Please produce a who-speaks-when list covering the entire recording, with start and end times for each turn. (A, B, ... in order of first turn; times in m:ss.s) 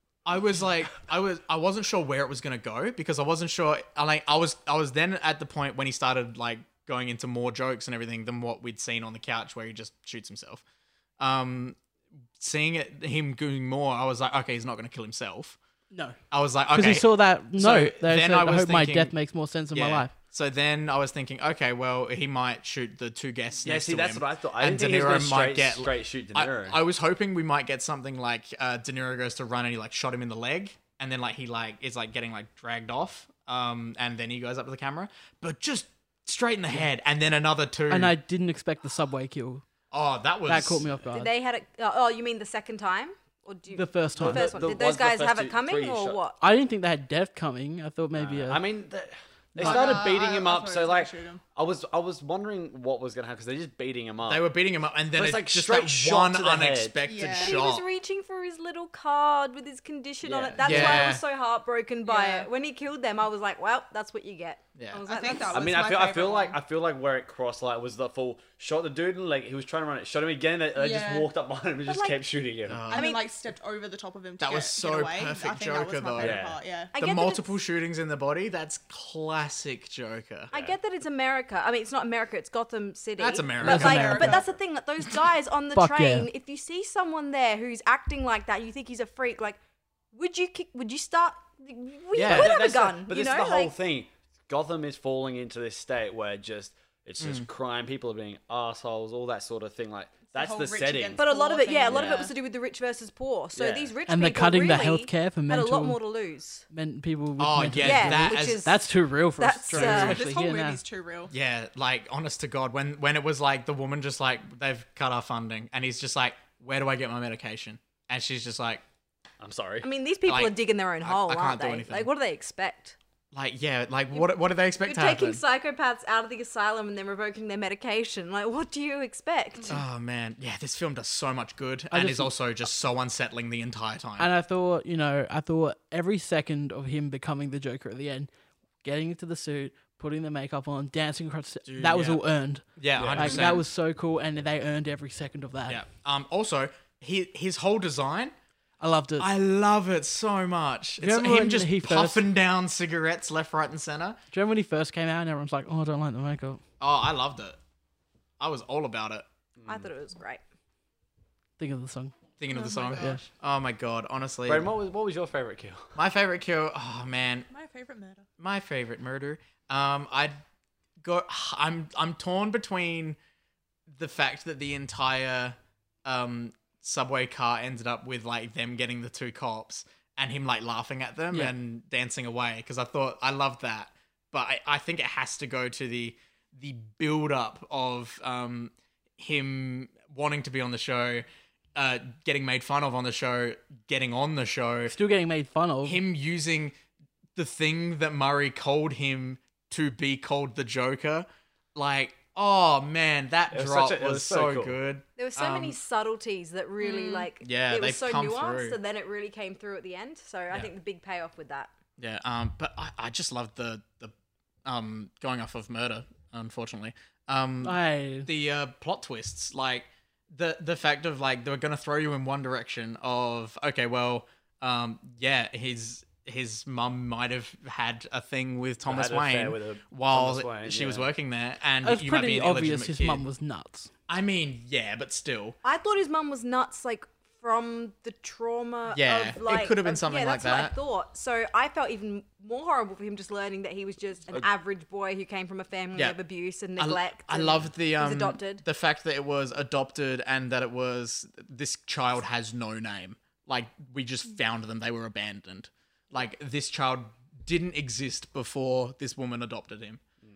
0:00.2-0:10.6 A
0:11.2-0:11.8 A
0:12.4-0:15.6 A
0:15.9-0:16.2 B
0:16.3-0:19.1 A
0:16.7-0:20.1 B
0:19.7-0:38.2 A
0:23.6-0:26.8 C
0:37.9-0:39.6 B
0:39.9-0:40.9 A
0:40.5-0:41.3 B
0:41.1-0:46.4 D
0:43.7-0:44.5 B
0:44.2-0:46.2 C
0:46.4-0:48.6 B
0:48.2-0:54.5 C
0:49.6-0:51.4 E
0:49.6-0:49.9 A
0:54.3-0:57.8 A
0:55.1-0:57.0 C
0:57.0-0:57.6 E
0:57.4-1:05.6 D
1:00.2-1:01.2 C
1:00.6-1:01.2 A
1:02.1-1:02.5 E
1:05.1-1:06.6 E
1:05.5-1:12.9 C
1:10.8-1:11.3 E
1:11.9-1:12.2 D
1:12.7-1:13.1 A
1:12.9-1:16.9 E
1:12.9-1:13.2 D
1:14.4-1:16.4 A
1:16.2-1:16.6 C
1:16.9-1:17.5 D
1:17.0-1:20.5 A
1:20.5-1:29.6 D
1:23.2-1:24.3 A
1:23.6-1:24.4 B
1:23.6-1:24.5 E
1:25.8-1:26.3 B
1:30.1-1:33.7 D
1:32.2-1:32.6 A
1:32.2-1:41.2 C
1:37.2-1:37.5 A
1:40.3-1:42.3 E
1:41.2-1:46.7 D
1:41.9-1:42.3 C
1:43.6-1:43.9 C
1:44.1-1:46.0 B
1:46.7-1:50.8 B
1:47.4-1:48.7 A
1:47.8-1:50.2 D
1:49.7-1:50.2 A
1:49.9-1:51.3 E
1:51.3-1:58.8 A
1:59.4-1:59.9 C
1:59.8-2:03.0 D
2:00.3-2:02.1 A
2:03.3-2:05.4 A
2:04.8-2:09.8 D
2:09.7-2:14.3 A
2:11.9-2:12.3 B
2:14.2-2:18.3 B
2:18.8-2:25.8 B
2:21.6-2:22.2 A
2:22.8-2:23.6 A
2:23.0-2:23.5 C
2:25.7-2:28.3 A
2:28.8-2:29.3 B
2:29.2-2:34.2 A
2:31.0-2:32.2 B
2:34.3-2:36.6 B
2:36.8-2:37.6 A
2:38.4-2:39.3 A
2:39.6-2:39.9 C
2:39.7-2:40.4 D
2:41.6-2:42.1 B
2:42.4-2:44.7 A
2:42.5-2:43.3 E
2:44.5-2:45.9 C
2:46.0-2:47.5 A
2:47.5-2:48.3 E
2:48.4-2:50.4 A
2:51.0-2:53.2 A
2:53.9-3:11.2 A
3:11.8-3:14.9 A
3:14.9-3:16.0 B
3:15.8-3:16.8 A
3:17.4-3:25.8 A
3:23.5-3:24.8 C
3:25.2-3:31.7 D
3:26.8-3:27.3 E
3:27.4-3:28.8 A
3:32.0-3:34.1 A
3:34.6-3:53.2 A
3:37.6-3:38.3 B
3:48.8-3:51.1 C
3:51.8-3:53.9 B
3:54.1-3:55.6 A
3:55.6-4:08.6 D
3:58.9-4:00.7 A
4:06.8-4:20.0 A